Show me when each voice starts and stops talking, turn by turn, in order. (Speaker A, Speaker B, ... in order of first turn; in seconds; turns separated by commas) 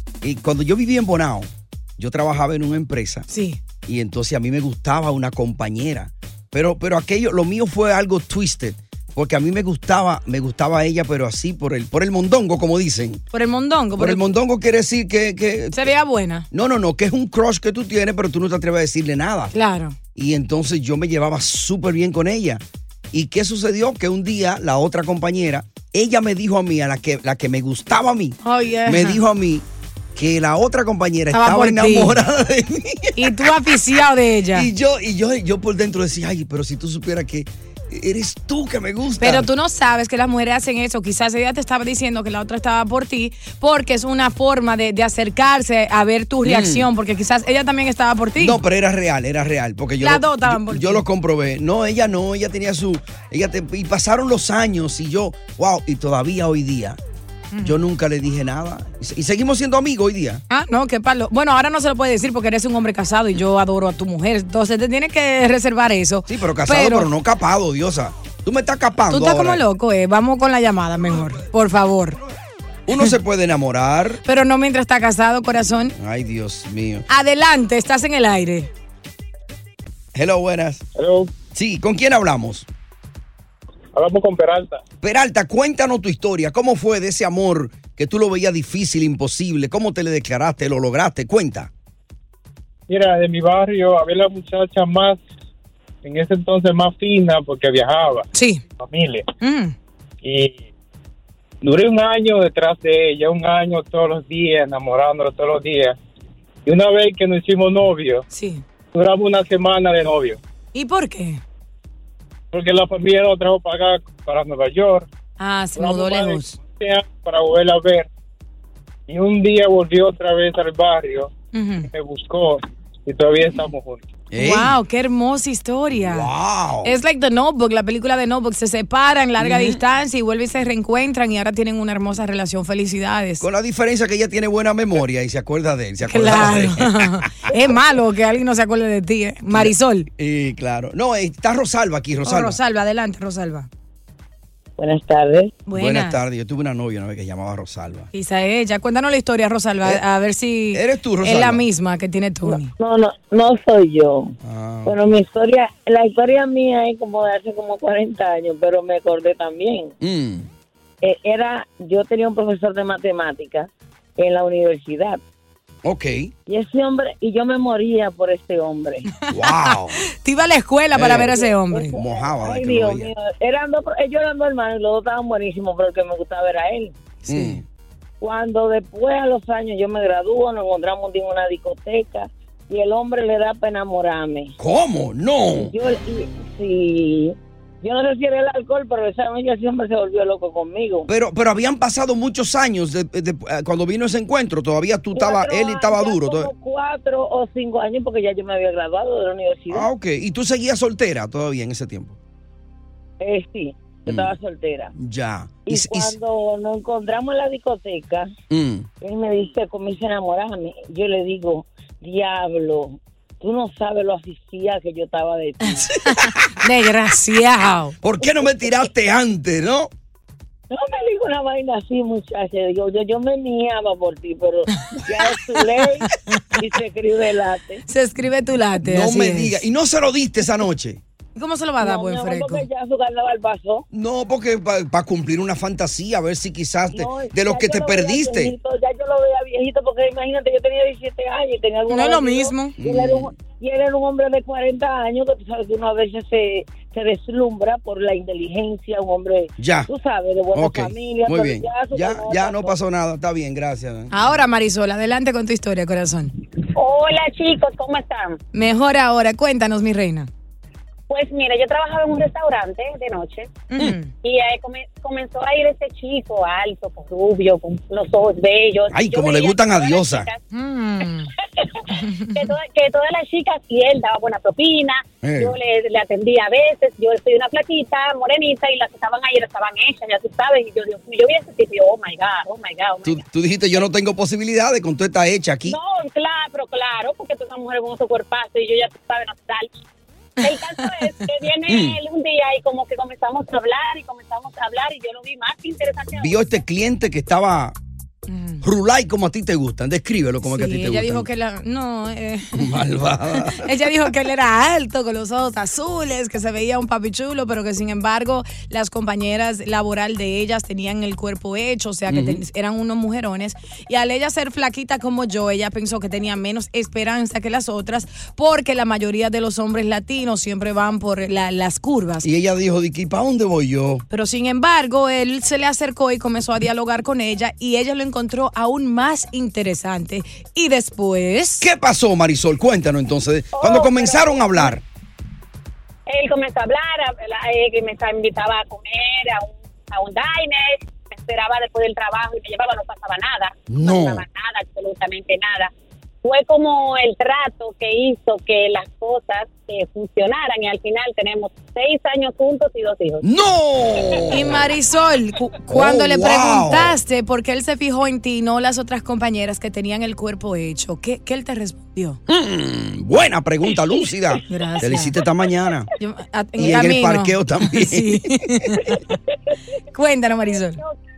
Speaker A: 0.2-3.3, Speaker B: 3.3-3.6, Speaker A: 3.9-13.2, Speaker B: 13.3-14.3, Speaker A: 14.0-15.9, Speaker B: 15.7-16.5, Speaker A: 16.5-19.5, Speaker B: 19.5-20.0, Speaker A: 20.1-33.6, Speaker B: 28.4-29.2, Speaker B: 31.3-32.2, Speaker B: 33.2-34.7, Speaker A: 34.5-39.5, Speaker B: 39.2-48.6, Speaker A: 46.4-46.9, Speaker A: 48.4-57.0, Speaker B: 50.0-51.0, Speaker A: 57.6-60.4, Speaker B: 60.5-67.1, Speaker A: 66.3-69.6, Speaker B: 69.1-72.2, Speaker A: 72.9-74.2, Speaker B: 74.2-76.0, Speaker A: 76.0-77.1, Speaker B: 77.1-78.7, Speaker A: 80.1-80.8, Speaker C: 81.0-81.3, Speaker A: 81.5-82.7, Speaker C: 83.9-84.8, Speaker A: 85.0-91.7, Speaker C: 92.9-95.2, Speaker C: 96.0-98.3, Speaker B: 98.3-98.6, Speaker C: 98.8-99.2, Speaker B: 99.4-99.7, Speaker C: 100.2-100.6, Speaker C: 101.6-106.0, Speaker C: 106.7-108.2, Speaker B: 108.3-108.6, Speaker C: 108.9-110.4, Speaker B: 110.7-111.4, Speaker C: 112.5-115.1, Speaker B: 115.4-116.6, Speaker C: 115.8-118.1, Speaker C: 119.1-121.3, Speaker B: 121.5-121.9, Speaker C: 121.9-124.1, Speaker A: 124.3-124.8, Speaker B: 124.4-126.3, Speaker A: 125.9-127.0, Speaker B: 126.8-133.4, Speaker A: 129.4-129.8, Speaker A: 133.4-137.6, Speaker B: 136.1-140.1, Speaker A: 139.5-142.6, Speaker B: 142.2-143.7, Speaker D: 144.8-145.6, Speaker B: 145.7-146.2, Speaker A: 145.7-148.1, Speaker B: 148.1-152.7, Speaker A: 150.7-151.6, Speaker D: 152.4-159.9, Speaker A: 154.4-155.0, Speaker A: 160.0-160.5, Speaker D: 161.0-165.2, Speaker A: 165.8-166.3, Speaker D: 166.5-169.1, Speaker A: 169.3-170.0, Speaker B: 169.4-172.0, Speaker A: 170.9-171.4, Speaker D: 171.1-176.9, Speaker A: 171.9-173.1, Speaker B: 177.2-177.6, Speaker A: 177.3-177.6, Speaker D: 178.2-184.6, Speaker A: 184.6-185.7, Speaker D: 185.6-191.1, Speaker A: 191.1-196.5, Speaker D: 195.1-199.9, Speaker A: 199.7-202.2, Speaker D: 203.2-204.9, Speaker A: 204.1-204.3, Speaker A: 204.9-206.1, Speaker D: 205.7-208.3, Speaker A: 208.5-208.9, Speaker D: 209.0-215.9, Speaker B: 215.6-218.0, Speaker A: 215.9-216.6, Speaker A: 218.0-219.9, Speaker D: 218.2-218.8, Speaker D: 220.7-227.8, Speaker B: 226.3-226.6, Speaker B: 227.9-229.6, Speaker A: 228.8-231.0, Speaker B: 231.3-232.7, Speaker D: 231.8-233.9, Speaker A: 233.9-238.5, Speaker D: 236.9-252.8, Speaker B: 241.9-242.8, Speaker A: 242.8-243.3, Speaker A: 249.6-249.9, Speaker A: 250.5-254.4, Speaker B: 254.1-256.3, Speaker E: 256.8-258.4, Speaker B: 258.5-260.3, Speaker E: 261.1-263.6, Speaker B: 263.7-264.1, Speaker E: 264.2-270.4, Speaker A: 268.9-270.3, Speaker B: 270.5-271.3, Speaker E: 271.6-283.8, Speaker B: 271.9-272.5, Speaker A: 275.2-275.6, Speaker A: 283.1-285.8, Speaker E: 285.7-289.8, Speaker E: 290.4-296.6, Speaker B: 290.4-291.3, Speaker A: 291.7-292.0, Speaker A: 296.1-297.8, Speaker B: 298.3-298.6, Speaker A: 298.6-301.3, Speaker B: 300.4-302.7, Speaker A: 302.5-303.7, Speaker B: 303.4-322.3, Speaker A: 312.1-312.4, Speaker A: 322.2-324.0, Speaker B: 324.1-331.7, Speaker A: 331.6-334.8, Speaker E: 333.5-334.8, Speaker E: 336.1-345.7, Speaker A: 343.7-344.2, Speaker E: 346.2-353.3, Speaker A: 353.2-354.6, Speaker B: 354.3-362.2, Speaker A: 355.7-357.0, Speaker A: 362.3-365.9, Speaker B: 364.5-365.1, Speaker B: 366.0-369.0, Speaker A: 366.6-368.7, Speaker B: 369.9-370.8